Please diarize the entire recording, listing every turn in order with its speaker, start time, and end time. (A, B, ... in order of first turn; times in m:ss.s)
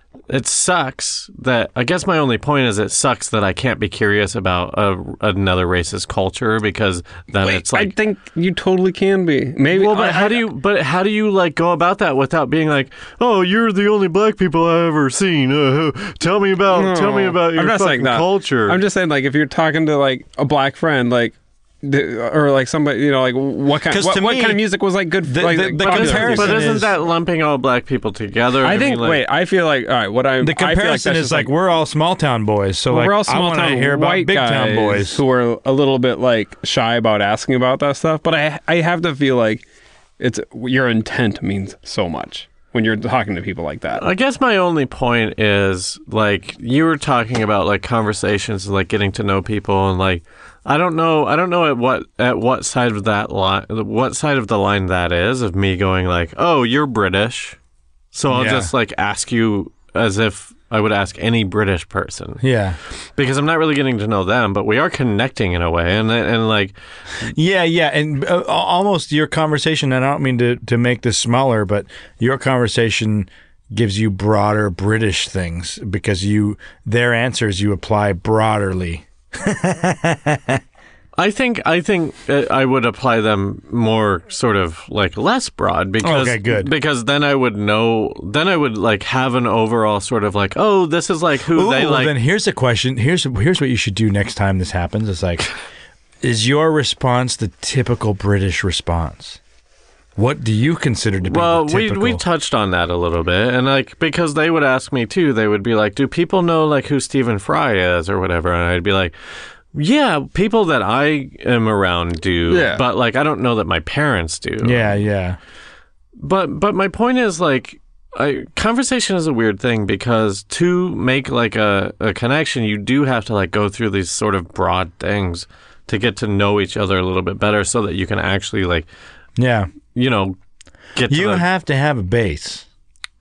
0:00.3-0:07.9 A
0:07.4-0:10.5 B
0:09.7-0:18.8 A
0:16.7-0:26.9 B
0:23.9-0:24.7 C
0:25.2-0:26.9 C
0:25.8-0:29.2 A
0:28.6-0:31.5 B
0:30.4-0:35.2 C
0:32.9-0:39.6 B
0:40.2-0:44.0 B
0:44.0-0:57.6 A
0:58.1-1:02.4 A
0:58.3-0:58.7 C
1:02.4-1:02.8 C
1:03.2-1:06.8 A
1:07.2-1:20.6 C
1:21.2-1:32.2 A
1:26.0-1:26.7 C
1:31.6-1:35.5 C
1:36.2-1:39.4 C
1:40.2-1:42.2 C
1:41.2-1:49.2 A
1:49.7-1:55.0 A
1:52.5-1:52.8 B
1:54.6-1:55.4 C
1:56.2-2:08.9 A
2:09.4-2:09.7 C
2:09.9-2:10.4 A
2:11.0-2:11.4 A
2:11.1-2:12.7 C